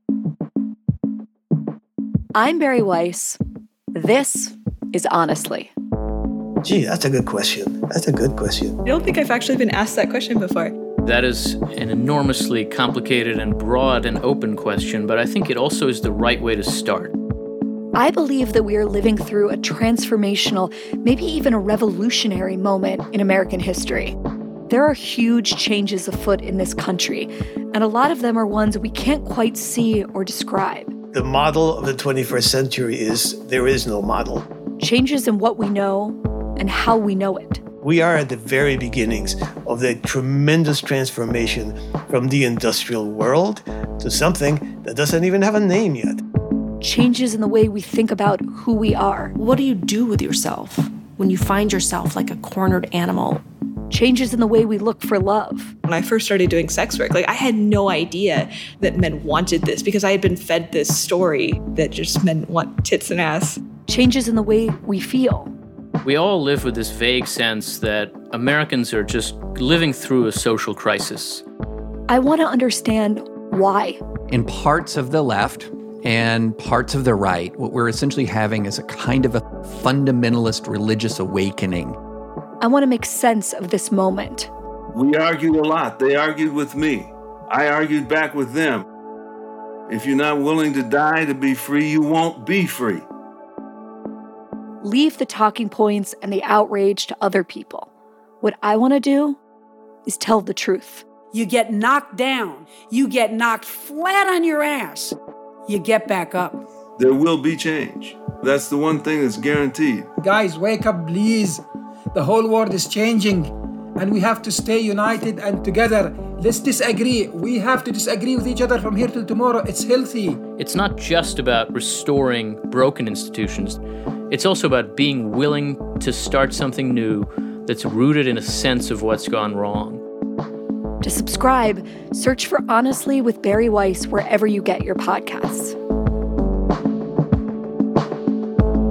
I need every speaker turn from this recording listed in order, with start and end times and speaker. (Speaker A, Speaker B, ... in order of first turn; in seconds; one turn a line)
Speaker A: 2.3-3.4
Speaker A: 3.9-5.7
Speaker B: 6.6-8.8
Speaker C: 8.8-10.8
Speaker D: 11.0-17.1
Speaker A: 17.9-24.1
Speaker A: 24.7-30.9
Speaker B: 31.1-34.5
Speaker A: 34.8-37.6
Speaker B: 37.8-46.2
Speaker A: 46.8-49.3
Speaker E: 49.4-53.4
Speaker A: 53.9-55.7
Speaker C: 55.8-63.6
Speaker A: 63.9-65.5
Speaker D: 66.0-71.4
Speaker A: 72.1-74.0
Speaker F: 74.3-82.0
Speaker A: 82.6-84.5
Speaker G: 84.9-88.8
Speaker G: 89.9-93.0
Speaker A: 94.8-97.9
Speaker A: 98.4-99.4
Speaker A: 100.0-101.0
Speaker H: 101.3-105.2
Speaker H: 105.7-106.6
Speaker G: 107.0-110.1
Speaker I: 110.2-111.6
Speaker I: 112.1-120.4
Speaker D: 120.6-130.0
Speaker A: 131.0-135.7